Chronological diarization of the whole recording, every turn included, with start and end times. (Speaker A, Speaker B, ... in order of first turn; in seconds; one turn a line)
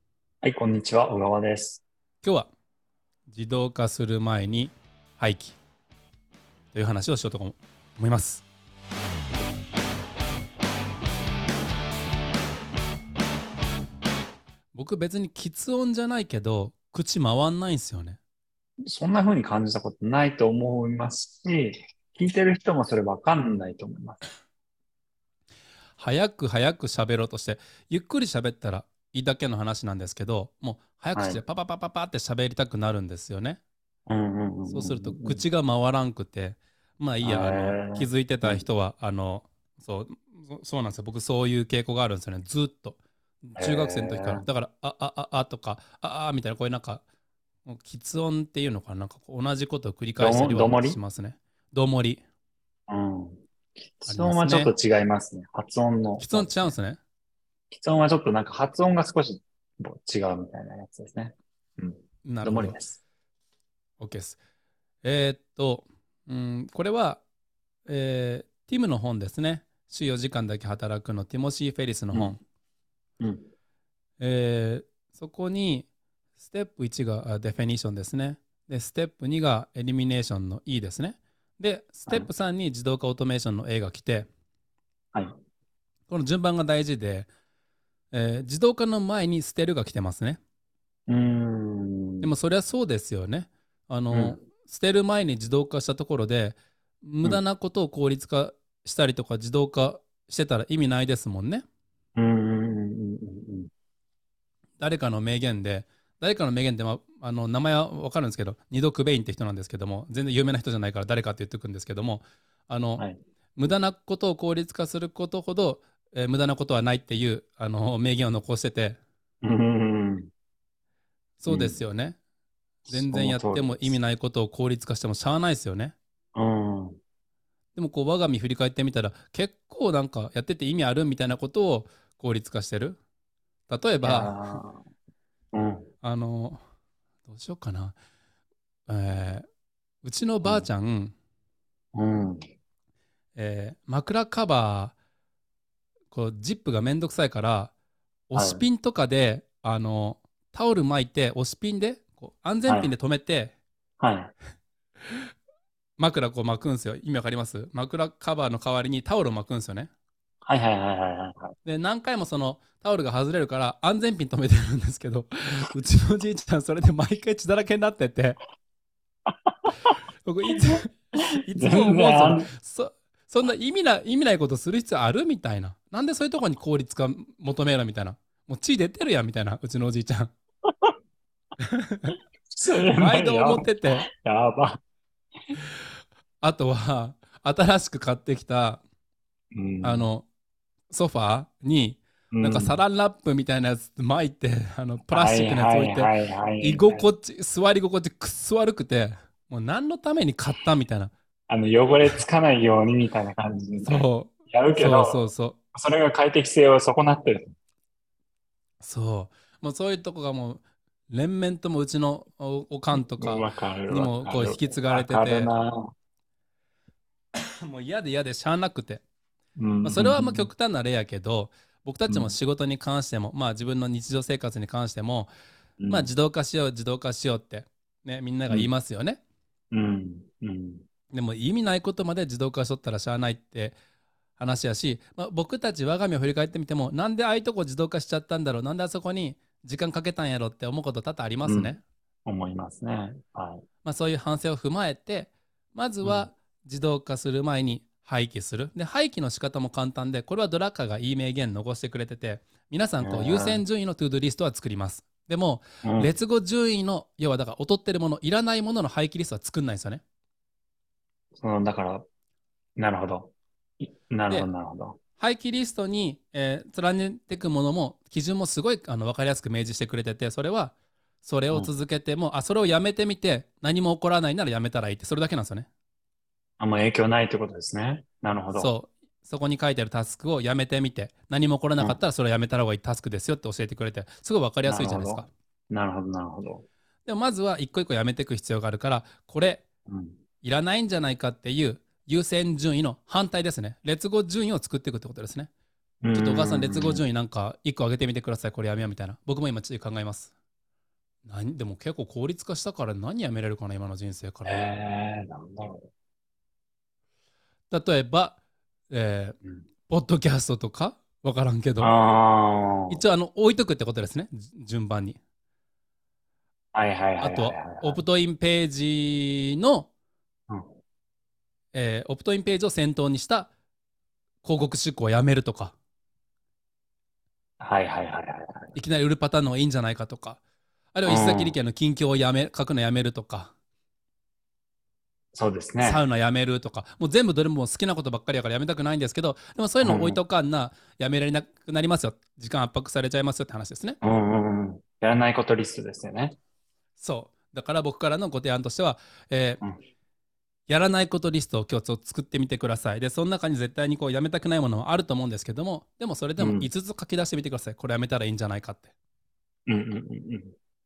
Speaker A: 0.4-1.8
Speaker B: 2.2-2.5
Speaker B: 3.3-5.6
Speaker B: 6.7-8.4
Speaker B: 14.7-18.2
Speaker A: 18.9-24.2
Speaker B: 26.0-33.6
Speaker A: 31.1-31.4
Speaker A: 34.1-35.4
Speaker B: 34.7-47.0
Speaker A: 37.2-38.6
Speaker A: 43.6-44.4
Speaker B: 47.6-52.2
Speaker A: 50.2-51.0
Speaker A: 52.9-53.4
Speaker A: 54.0-56.7
Speaker B: 54.1-54.7
Speaker B: 56.2-57.0
Speaker A: 57.7-63.0
Speaker B: 62.2-62.8
Speaker B: 64.0-64.4
Speaker B: 65.0-67.2
Speaker B: 67.8-72.4
Speaker A: 73.2-73.5
Speaker B: 74.2-75.9
Speaker B: 76.4-84.3
Speaker B: 86.1-87.3
Speaker B: 88.1-90.4
Speaker A: 91.1-92.3
Speaker B: 92.2-101.6
Speaker A: 94.1-94.4
Speaker A: 102.2-103.7
Speaker B: 104.8-113.0
Speaker B: 113.6-119.0
Speaker A: 119.4-120.3
Speaker B: 121.4-122.2
Speaker A: 121.5-121.8
Speaker B: 122.8-125.9
Speaker A: 122.9-124.0
Speaker A: 126.3-127.0
Speaker B: 127.7-133.0
Speaker B: 133.7-134.3
Speaker A: 134.0-134.8
Speaker A: 135.5-135.9
Speaker B: 136.0-136.6
Speaker B: 137.3-137.9
Speaker B: 138.9-139.4
Speaker B: 140.0-141.1
Speaker A: 141.9-142.4
Speaker B: 143.3-144.9
Speaker B: 146.1-147.7
Speaker B: 148.3-153.5
Speaker A: 148.3-148.6
Speaker A: 154.0-154.3
Speaker B: 156.0-159.9
Speaker A: 160.4-161.5
Speaker B: 161.6-168.4
Speaker A: 169.3-169.9
Speaker B: 170.2-180.3
Speaker A: 171.4-172.5
Speaker B: 181.6-182.2
Speaker A: 182.5-184.8
Speaker B: 182.9-184.1
Speaker B: 186.4-188.8
Speaker A: 189.5-190.1
Speaker B: 189.8-190.2
Speaker B: 190.9-201.1
Speaker A: 192.3-192.8
Speaker A: 195.1-197.1
Speaker A: 201.5-205.2
Speaker B: 203.8-205.6
Speaker A: 205.7-207.5
Speaker B: 208.8-215.5
Speaker A: 212.9-215.9
Speaker B: 217.6-219.0
Speaker A: 219.6-220.5
Speaker B: 219.8-225.3
Speaker A: 222.1-222.4
Speaker A: 225.8-226.1
Speaker B: 225.9-229.2
Speaker A: 229.7-230.8
Speaker B: 231.1-233.8
Speaker B: 234.4-241.8
Speaker A: 241.4-243.6
Speaker B: 243.8-260.0
Speaker A: 246.0-246.3
Speaker A: 253.0-253.6
Speaker A: 255.8-256.1
Speaker A: 261.4-262.0
Speaker A: 262.8-265.0
Speaker B: 265.2-275.7
Speaker A: 276.6-278.7
Speaker B: 278.5-285.3
Speaker A: 284.6-286.6
Speaker B: 287.1-289.6
Speaker A: 289.9-290.2
Speaker B: 290.4-295.5
Speaker A: 296.0-297.0
Speaker B: 296.1-300.3
Speaker B: 301.2-304.7
Speaker A: 304.4-305.9
Speaker B: 307.7-308.4
Speaker B: 308.9-309.4
Speaker B: 309.9-311.9
Speaker A: 311.8-313.0
Speaker B: 312.9-315.2
Speaker A: 316.7-318.0
Speaker B: 317.2-319.9
Speaker B: 321.7-323.5
Speaker B: 324.4-325.8
Speaker A: 327.6-328.8
Speaker B: 328.7-330.4
Speaker B: 330.9-333.5
Speaker A: 331.1-331.6
Speaker A: 335.3-336.0
Speaker B: 335.8-344.0
Speaker A: 339.8-340.2
Speaker A: 344.0-346.4
Speaker B: 347.0-349.6
Speaker B: 350.7-358.9
Speaker A: 356.4-356.7
Speaker A: 359.7-360.5